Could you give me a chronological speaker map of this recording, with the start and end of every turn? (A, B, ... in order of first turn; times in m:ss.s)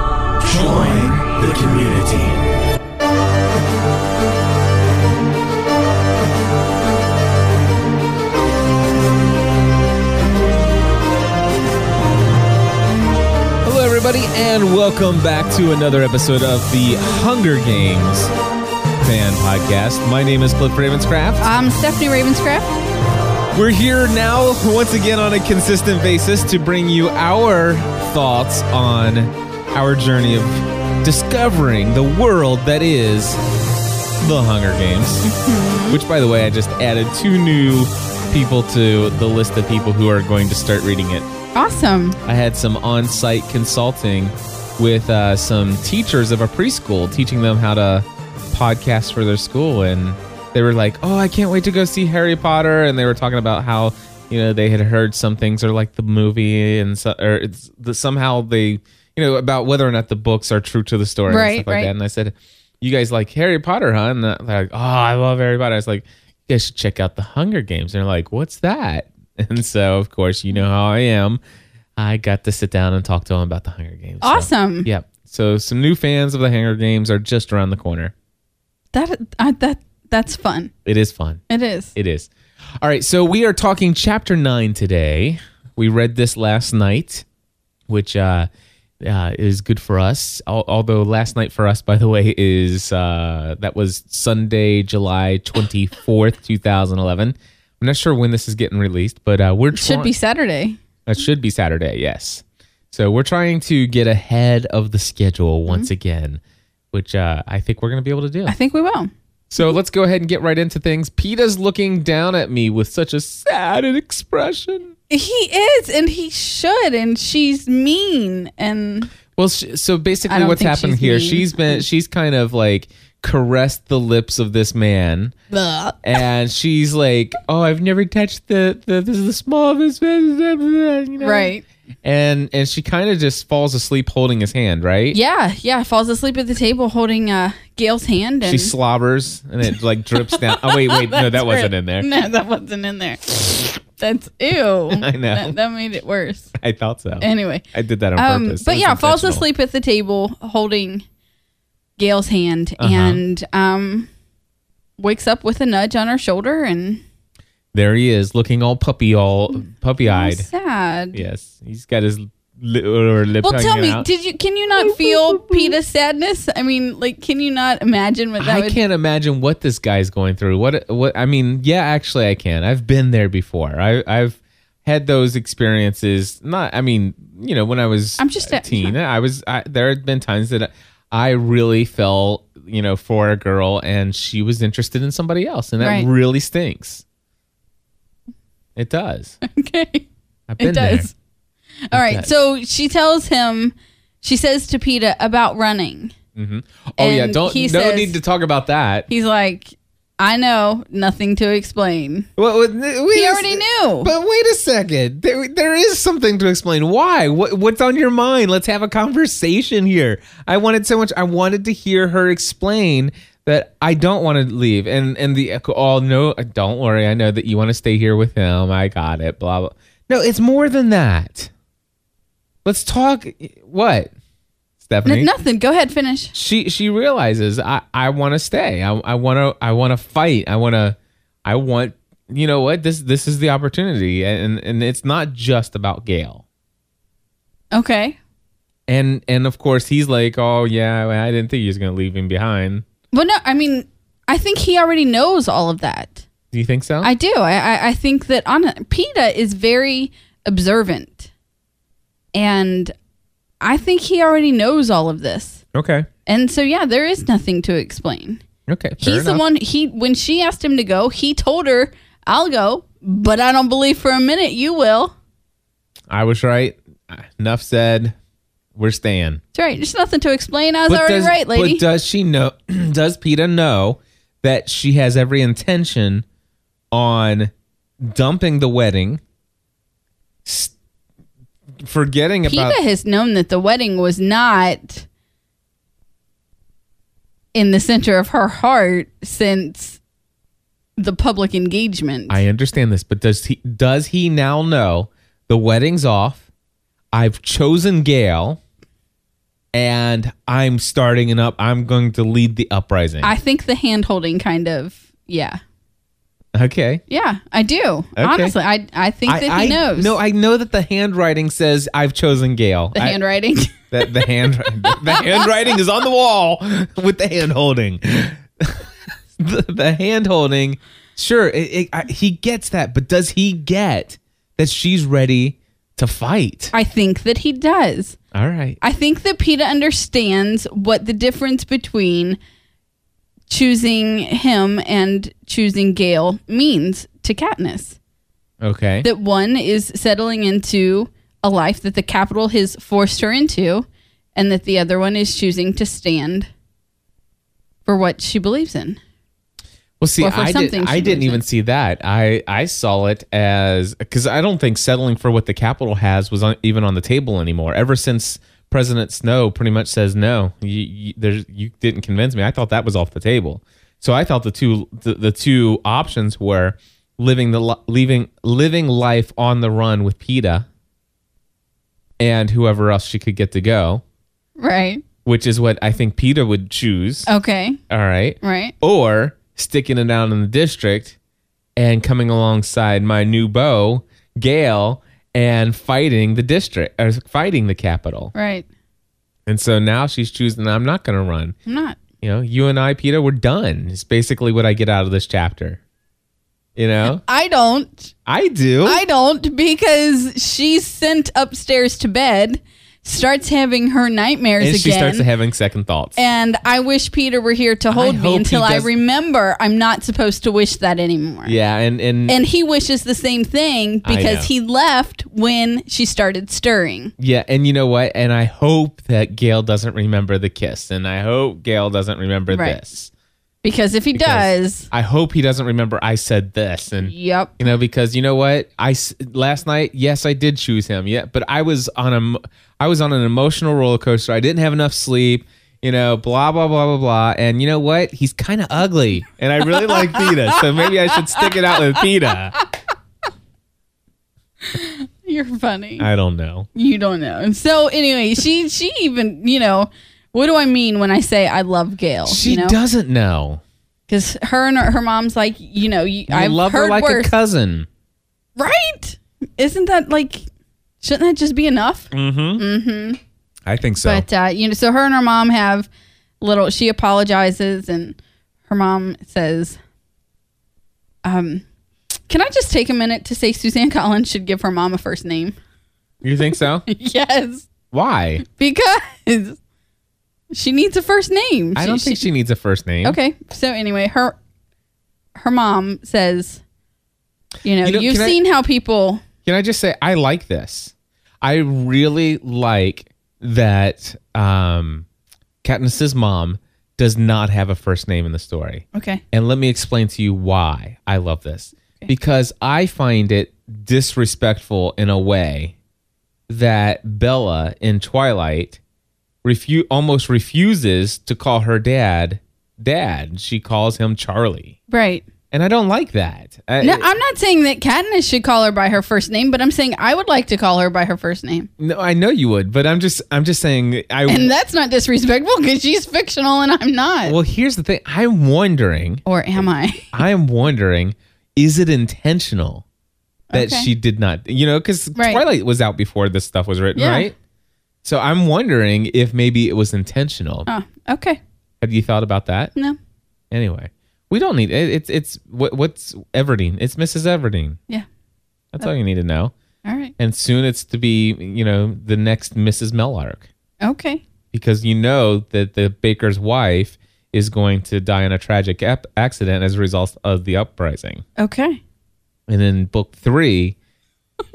0:00.4-0:02.4 A
0:13.6-0:18.3 B
0:19.0-0:21.4 B
0:21.4-0:22.7 C
0:23.5-0:33.4 B
0:34.2-0:35.3 B
0:35.2-0:36.0 C
0:35.9-0:41.3 B
0:41.5-0:42.2 C
0:42.2-1:11.4 B
1:01.3-1:01.9 C
1:12.0-1:18.1 B
1:14.2-1:14.9 C
1:18.9-1:20.7 C
1:20.8-1:21.4 B
1:21.5-1:21.9 C
1:21.9-1:22.3 B
1:22.8-1:27.2 B
1:27.9-1:28.5 B
1:29.0-1:40.1 B
1:39.7-1:40.8 C
1:41.0-1:46.4 B
1:46.9-1:48.5 B
1:48.4-1:49.1 C
1:49.5-1:54.9 B
1:55.1-1:59.1 C
1:59.4-2:05.3 B
2:00.3-2:01.8 C
2:05.5-2:06.0 C
2:06.0-2:11.5 B
2:11.2-2:11.6 C
2:12.0-2:15.2 B
2:15.1-2:18.7 C
2:18.4-2:22.1 B
2:20.3-2:26.5 C
2:24.9-2:25.6 B
2:26.5-2:29.4 B
2:27.2-2:27.6 C
2:28.2-2:31.0 C
2:32.0-2:34.1 C
2:32.8-2:33.2 B
2:35.0-2:37.0 C
2:37.7-2:40.5 B
2:40.0-2:41.2 C
2:41.1-2:44.0 B
2:43.4-2:48.8 C
2:48.4-3:07.0 B
2:58.2-2:59.0 C
3:05.8-3:06.1 C
3:08.8-3:09.4 B
3:09.4-3:10.1 C
3:10.5-3:11.1 B
3:10.6-3:11.1 C
3:11.9-3:12.3 B
3:11.9-3:16.1 C
3:16.3-3:19.1 B
3:17.0-3:18.2 C
3:19.1-3:22.3 C
3:22.4-3:41.5 B
3:23.1-3:24.1 C
3:42.6-3:44.1 B
3:44.8-3:45.3 B
3:45.0-3:46.3 C
3:46.3-3:56.4 B
3:57.7-3:58.2 C
3:58.9-4:02.8 B
4:03.1-4:06.2 C
4:06.5-4:07.1 B
4:07.0-4:11.3 C
4:12.3-4:12.9 C
4:13.6-4:15.6 C
4:15.7-4:16.1 B
4:16.2-4:18.4 C
4:18.7-4:19.4 B
4:19.0-4:25.1 C
4:26.1-4:28.1 B
4:28.8-4:29.4 B
4:29.5-4:31.8 C
4:30.9-4:36.2 B
4:36.9-4:37.5 B
4:38.0-4:39.2 B
4:40.4-4:40.7 B
4:41.8-4:42.8 B
4:42.4-4:45.0 C
4:47.5-4:50.0 C
4:51.0-4:52.4 C
4:52.3-4:56.4 B
4:57.1-4:58.6 B
4:59.7-5:03.3 B
5:03.2-5:05.6 C
5:06.5-5:07.0 B
5:07.1-5:10.1 C
5:08.2-5:08.5 B
5:09.3-5:13.2 B
5:12.9-5:14.3 C
5:13.7-5:18.8 B
5:14.8-5:15.5 C
5:19.4-5:26.7 B
5:26.7-5:28.2 C
5:28.3-5:28.8 B
5:28.8-5:32.4 C
5:33.5-5:38.0 C
5:38.6-5:39.1 B
5:39.0-5:46.5 C
5:47.8-5:49.0 C
5:50.0-6:10.6 B
5:50.2-5:51.4 C
6:12.2-6:14.0 B
6:14.6-6:15.0 C
6:15.2-6:17.3 B
6:17.3-6:17.8 C
6:17.9-6:21.2 B
6:18.4-6:18.7 C
6:21.8-6:28.3 B
6:28.3-6:28.7 C
6:29.5-6:31.6 B
6:31.6-6:32.0 C
6:32.2-6:35.8 B
6:36.8-6:37.2 B
6:37.0-6:38.1 C
6:38.2-6:39.0 B
6:38.8-6:45.3 C
6:44.6-6:46.2 B
6:46.2-6:51.6 C
6:47.9-6:48.9 B
6:51.4-6:52.4 B
6:52.2-6:57.1 C
6:54.0-6:54.5 B
6:57.2-7:03.1 B
7:02.5-7:02.8 C
7:03.6-7:04.9 C
7:04.1-7:22.6 B
7:07.0-7:07.7 C
7:19.6-7:22.6 C
7:24.6-7:26.1 C
7:26.0-7:26.7 B
7:26.7-7:32.8 C
7:32.2-7:33.6 B
7:34.1-7:37.3 C
7:36.3-7:37.9 B
7:38.6-7:40.5 C
7:41.0-7:43.2 C
7:42.1-7:42.6 B
7:43.7-7:44.2 B
7:44.0-7:45.9 C
7:46.4-7:49.8 C
7:51.2-7:51.6 C
7:52.3-7:55.6 C
7:56.2-7:56.8 B
7:56.8-7:57.7 C
7:57.9-7:58.4 B
7:58.4-7:59.6 C
8:00.5-8:02.2 C
8:01.8-8:03.2 B
8:03.0-8:04.4 C
8:05.3-8:06.6 C
8:07.6-8:09.2 C
8:07.8-8:08.4 B
8:09.4-8:15.0 B
8:15.6-8:25.7 B
8:18.9-8:19.2 C
8:26.5-8:28.8 B
8:29.4-8:34.8 B
8:34.9-8:35.2 C
8:35.5-8:37.1 B
8:36.8-8:41.7 C
8:41.8-8:44.5 B
8:44.3-8:47.4 C
8:47.2-8:52.8 B
8:49.2-8:50.2 C
8:53.5-8:53.9 C
8:53.5-8:57.3 B
8:55.1-8:55.4 C
8:56.9-8:57.3 C
8:58.0-9:00.7 B
9:00.7-9:01.4 C
9:01.8-9:02.7 B
9:03.5-9:07.8 B
9:08.7-9:09.5 B
9:09.8-9:10.1 C
9:10.2-9:13.5 B
9:13.8-9:14.2 C
9:14.5-9:21.2 B
9:21.4-9:21.8 C
9:22.5-9:23.8 B